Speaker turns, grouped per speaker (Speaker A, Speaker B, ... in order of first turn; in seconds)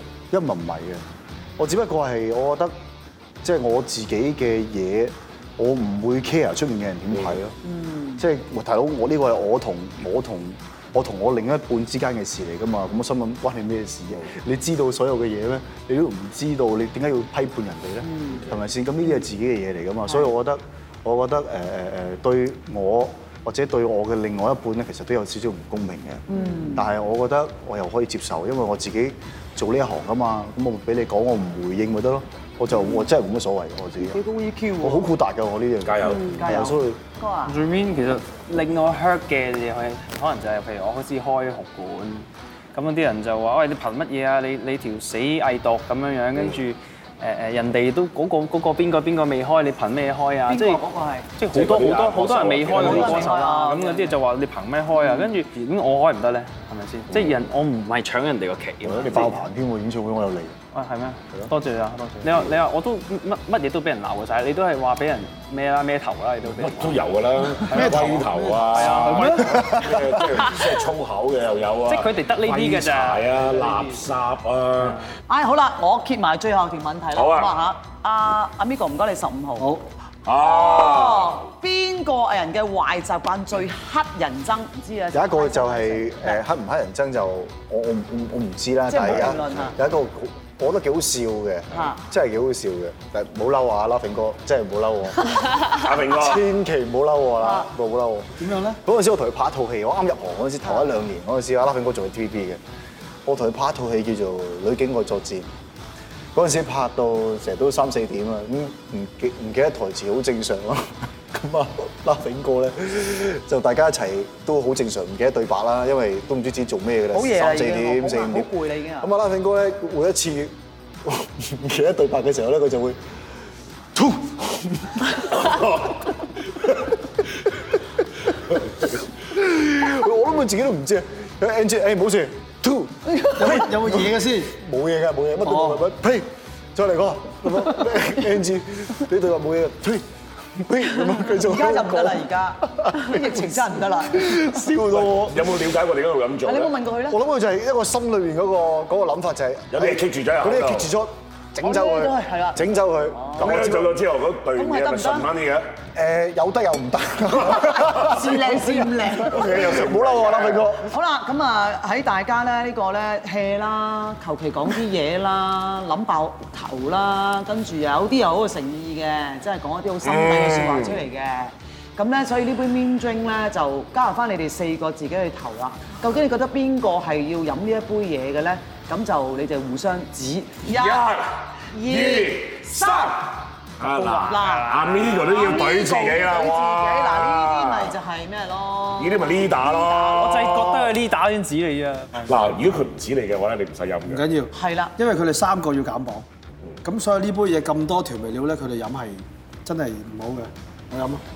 Speaker A: 0.3-1.0, 1.6-2.7, 3.4-7.6, 8.2-34.2, 34.8-37.0, 58.8-60.5, 85.1-102.6, 103.2-105.5, 106.3-123.0, 124.0-126.9, 128.3-145.5, 147.1-153.9, 155.9-160.9
Speaker B: 7.6-8.2, 18.1-18.4, 26.3-26.9, 32.7-33.0, 34.0-35.1, 36.1-37.6, 50.5-51.3, 52.7-54.1, 55.0-55.3, 75.3-79.8, 80.4-86.4, 88.9-89.8, 91.7-92.0, 97.4-97.7, 117.1-119.1, 141.3-144.6, 146.5-147.2, 151.6-153.6, 154.6-155.3, 157.5-159.8, 160.8-181.1, 181.7-190.3, 194.5-194.9
Speaker C: 35.8-36.5, 51.5-53.4, 66.5-75.0, 77.1-77.5, 80.3-81.5, 95.7-96.5, 144.9-146.7, 149.7-150.9, 153.4-155.7, 159.3-160.7, 170.0-171.0, 180.7-183.2, 183.8-188.0, 189.0-190.9, 192.3-194.3
Speaker D: 37.5-50.8, 51.4-59.4, 60.7-67.0, 67.7-70.7, 71.9-74.0, 74.8-75.0, 184.5-185.2, 190.2-192.5
Speaker E: 67.7-69.4, 79.6-79.8, 98.4-98.8, 133.3-134.6, 135.4-135.8, 194.1-196.3, 196.8-201.2